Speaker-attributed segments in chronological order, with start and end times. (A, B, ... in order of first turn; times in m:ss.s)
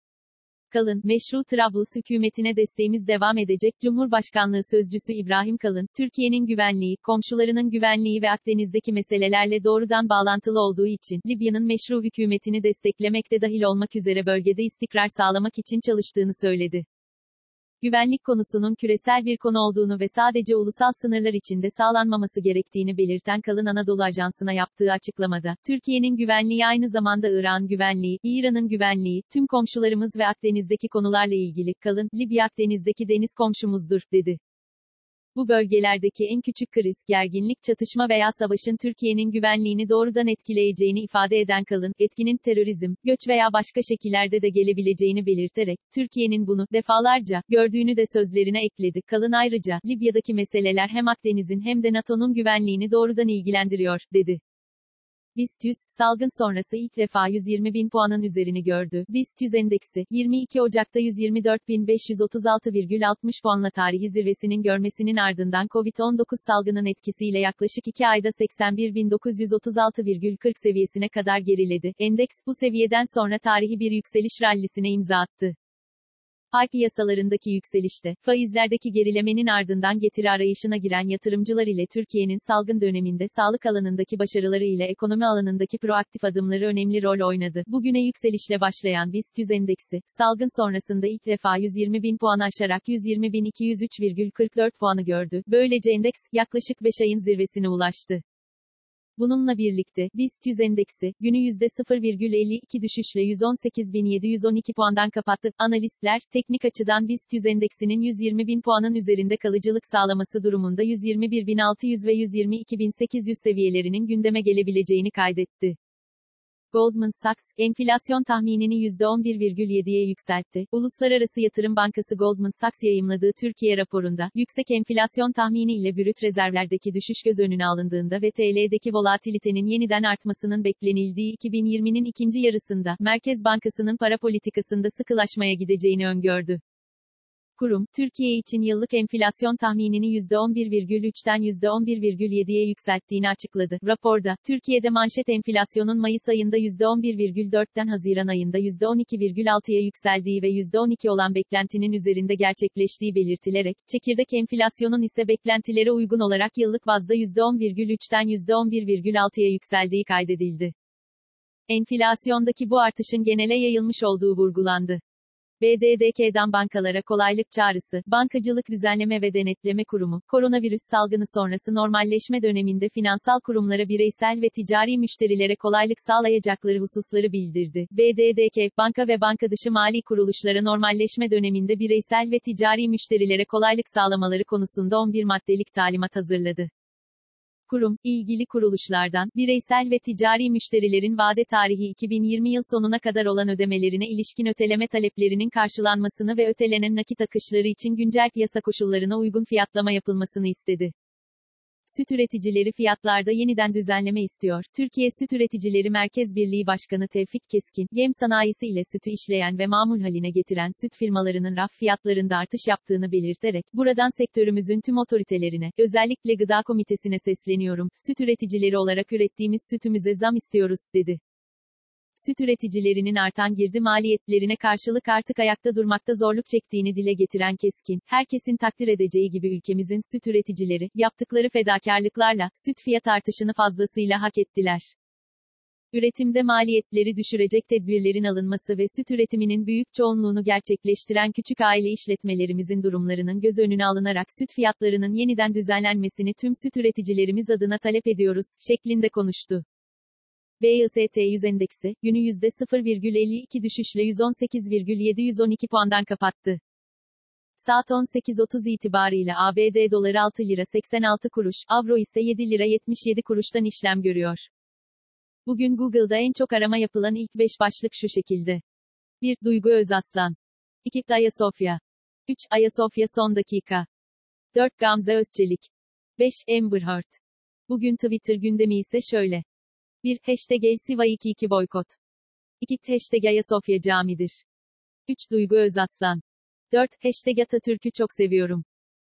0:00.7-0:16.9 A
0:17.8-0:34.4 A
0:35.4-0:54.4 A
0:55.4-1:15.6 A
1:16.5-1:38.2 A
1:39.2-1:55.8 A
1:56.7-2:16.6 A
2:17.6-2:40.7 A
2:41.7-2:45.0 A
2:45.6-3:06.7 A
3:07.7-3:20.9 A
3:21.9-3:41.2 A
3:42.2-3:54.9 A
3:55.9-4:09.6 A
4:10.6-4:16.6 A
4:17.6-4:24.5 A
4:25.5-4:28.6 A
4:29.2-4:33.9 A
4:34.5-4:39.4 A
4:40.0-4:42.0 A
4:42.6-4:44.4 A
4:45.1-4:48.6 A